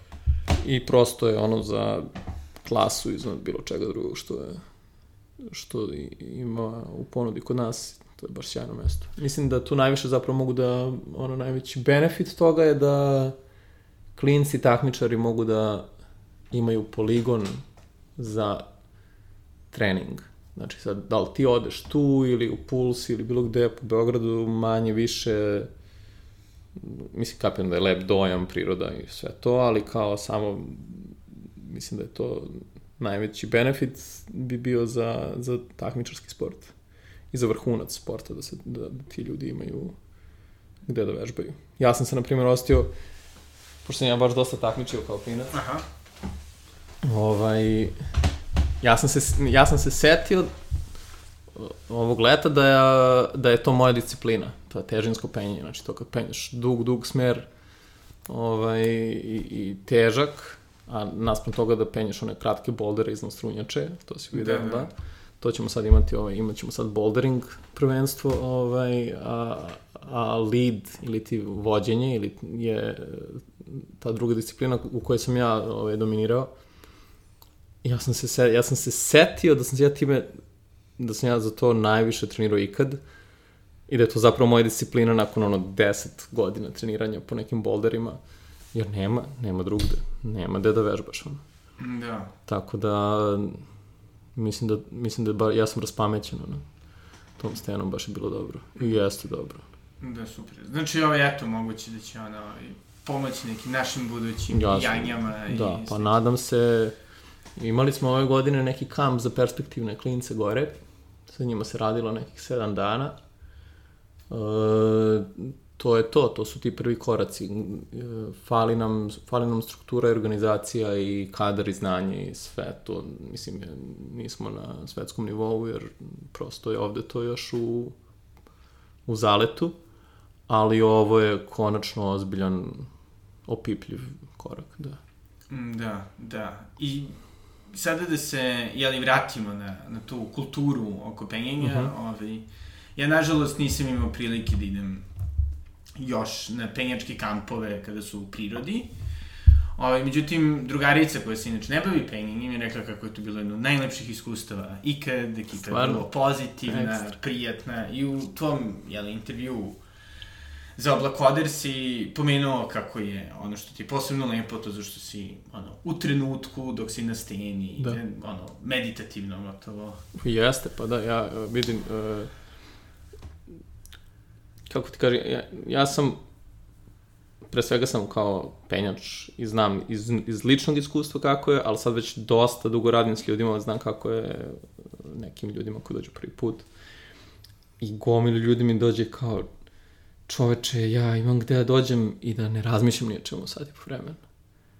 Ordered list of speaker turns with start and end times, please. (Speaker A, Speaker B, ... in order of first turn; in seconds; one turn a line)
Speaker A: 0.6-2.1
Speaker A: 2.6-4.6
Speaker A: 5.4-13.3
Speaker A: 14.1-15.9
Speaker A: 16.5-17.6
Speaker A: 18.2-18.6
Speaker A: 19.7-25.7
Speaker A: 26.7-36.7
Speaker A: 37.3-39.9
Speaker A: 40.9-42.9
Speaker A: 43.8-45.6
Speaker B: 45.5-45.8
Speaker A: 47.0-47.9
Speaker A: 48.8-50.5
Speaker A: 51.5-57.5
Speaker A: 58.3-76.5
Speaker B: 64.3-64.9
Speaker A: 77.8-80.3
Speaker A: 81.0-83.0
Speaker A: 83.9-88.2
Speaker A: 88.7-91.4
Speaker B: 91.8-92.3
Speaker A: 92.5-93.6
Speaker A: 94.3-96.6
Speaker A: 97.4-99.6
Speaker B: 100.0-106.2
Speaker A: 104.5-107.0
Speaker A: 107.6-113.1
Speaker A: 114.3-127.9
Speaker A: 129.1-129.8
Speaker A: 130.5-132.9
Speaker A: 133.4-135.0
Speaker B: 135.5-145.1
Speaker A: 141.6-141.9
Speaker B: 146.0-148.9
Speaker B: 149.8-159.8
Speaker A: 155.7-156.1
Speaker A: 156.7-157.1
Speaker B: 160.8-170.0
Speaker A: 170.1-172.3
Speaker A: 174.7-176.2
Speaker A: 177.5-186.7
Speaker A: 187.8-189.5
Speaker A: 190.3-194.2